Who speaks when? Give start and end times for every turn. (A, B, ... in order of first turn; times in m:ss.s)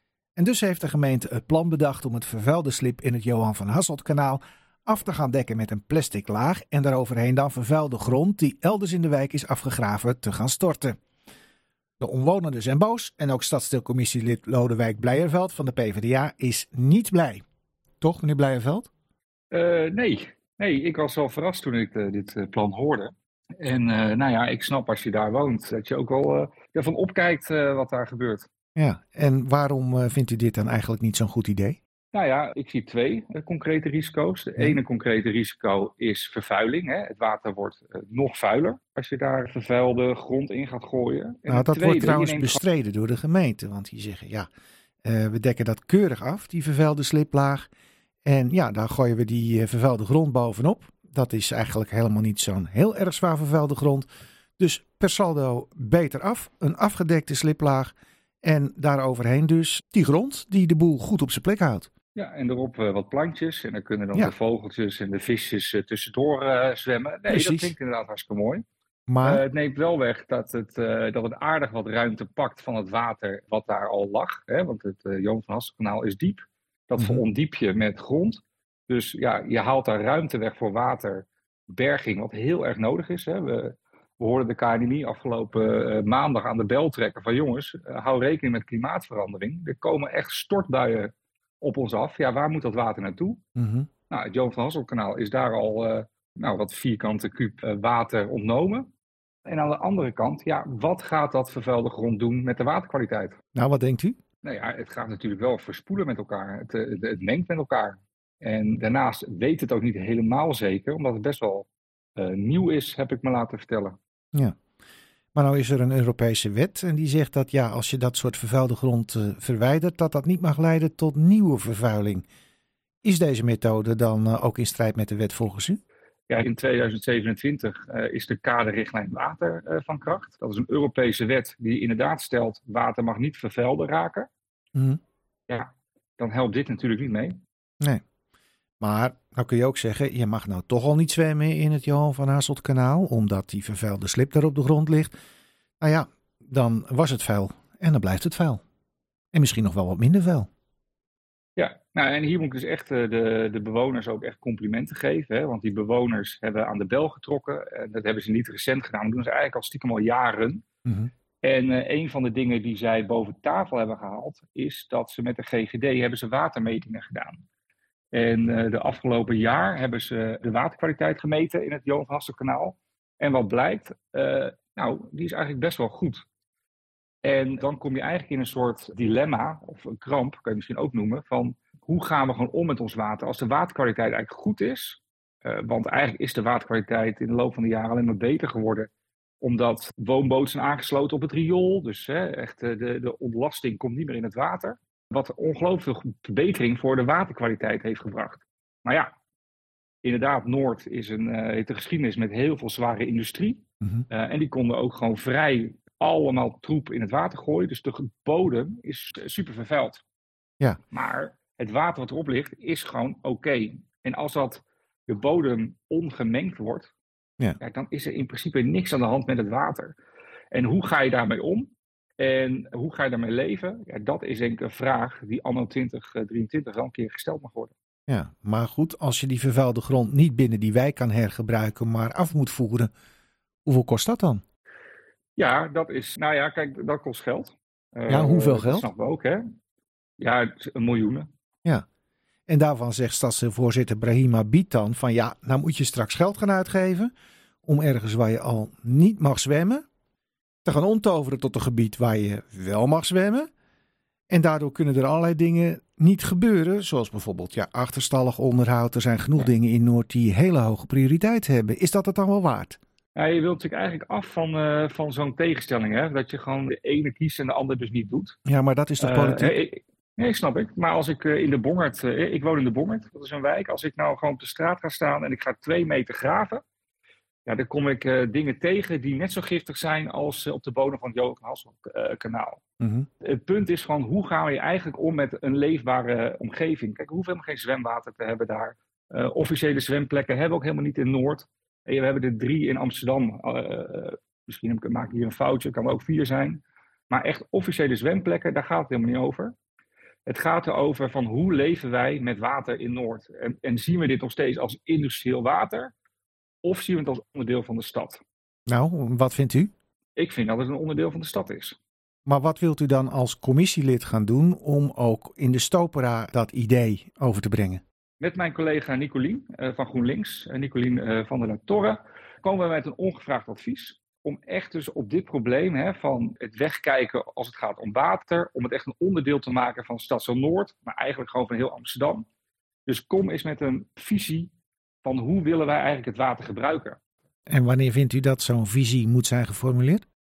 0:00.4-0:11.0 A
0:12.0-0:17.4 A
0:18.0-0:18.9 A
0:19.5-0:28.5 B
0:28.8-0:31.8 A
0:32.1-0:42.6 B
0:41.5-0:44.5 A
0:45.0-0:47.7 A
0:48.2-0:54.1 A
0:54.6-1:01.9 A
1:02.1-1:08.6 B
1:07.3-1:07.7 A
1:09.1-1:09.4 A
1:09.2-1:33.4 B
1:33.6-1:33.9 A
1:34.1-1:38.9 B
1:39.4-1:43.4 B
1:43.5-1:44.2 A
1:44.4-1:54.0 B
1:55.3-2:02.2 A
2:03.0-2:05.8 A
2:06.3-2:14.3 B
2:15.5-2:17.4 B
2:18.8-2:25.1 A
2:25.8-2:28.6 A
2:29.3-2:30.5 A
2:31.6-2:40.6 B
2:41.4-2:47.4 B
2:48.1-2:56.2 B
2:57.2-3:19.1 B
3:20.0-3:30.0 B
3:30.9-3:36.9 B
3:37.6-3:40.0 B
3:40.5-3:47.7 B
3:48.1-3:52.9 A
3:53.6-3:54.4 A
3:55.4-3:59.4 B
3:58.1-3:58.9 A
4:00.2-4:01.3 B
4:02.5-4:07.1 A
4:07.6-4:09.8 A
4:10.6-4:13.5 A
4:14.3-4:22.8 A
4:23.2-4:28.4 B
4:28.4-4:29.5 A
4:29.0-4:36.6 B
4:37.4-4:42.6 B
4:42.8-4:43.1 A
4:43.2-4:59.5 B
5:00.2-5:05.9 B
5:06.6-5:08.2 B
5:08.7-5:09.7 A
5:10.2-5:11.8 B
5:12.2-5:17.8 A
5:18.2-5:32.2 B
5:32.8-5:34.5 B
5:35.0-5:37.0 B
5:37.5-5:40.0 A